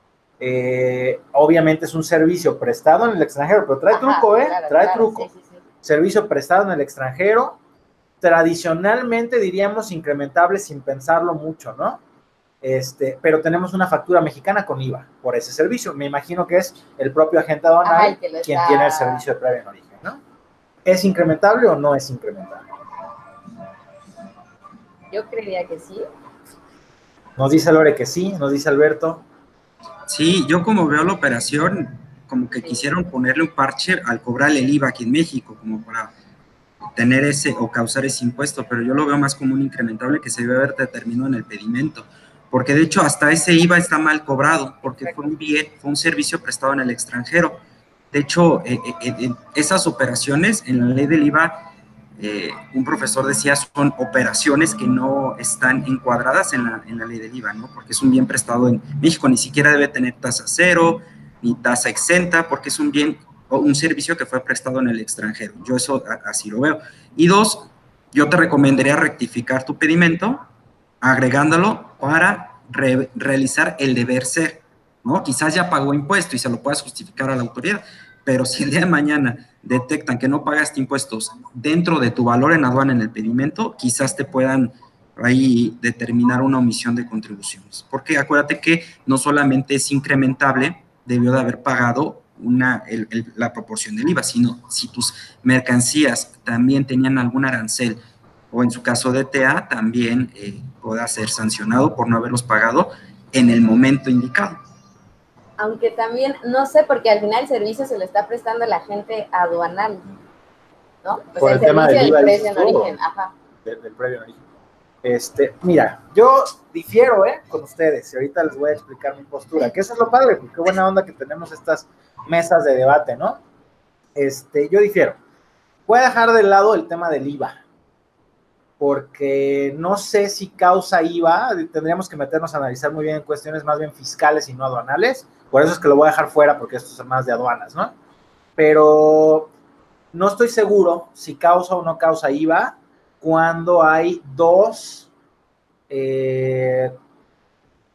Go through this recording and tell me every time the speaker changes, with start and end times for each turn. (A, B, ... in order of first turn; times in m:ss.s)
0:00.4-0:05.3 A
0:03.9-0:05.6 B
0:05.8-0:07.6 A
0:08.2-0:12.0 A
0:12.6-0:20.2 A
0:17.8-0:19.2 B
0:20.8-0:22.6 A
0:25.1-0:26.0 B
0:27.4-0:29.2 A
0:30.1-0:36.1 C
0:36.9-0:47.6 C
0:44.9-0:45.2 B
0:48.1-0:51.6 C
0:52.2-1:10.4 C
1:11.0-1:38.0 C
1:38.5-1:44.6 C
1:45.6-1:50.0 B
1:51.0-1:53.3 B
1:51.4-1:52.9 A
1:53.6-1:54.4 A
1:55.0-2:03.4 A
2:04.1-2:05.2 A
2:05.9-2:07.6 A
2:08.8-2:17.9 A
2:18.6-2:19.5 A
2:20.1-2:25.1 A
2:25.9-2:26.9 A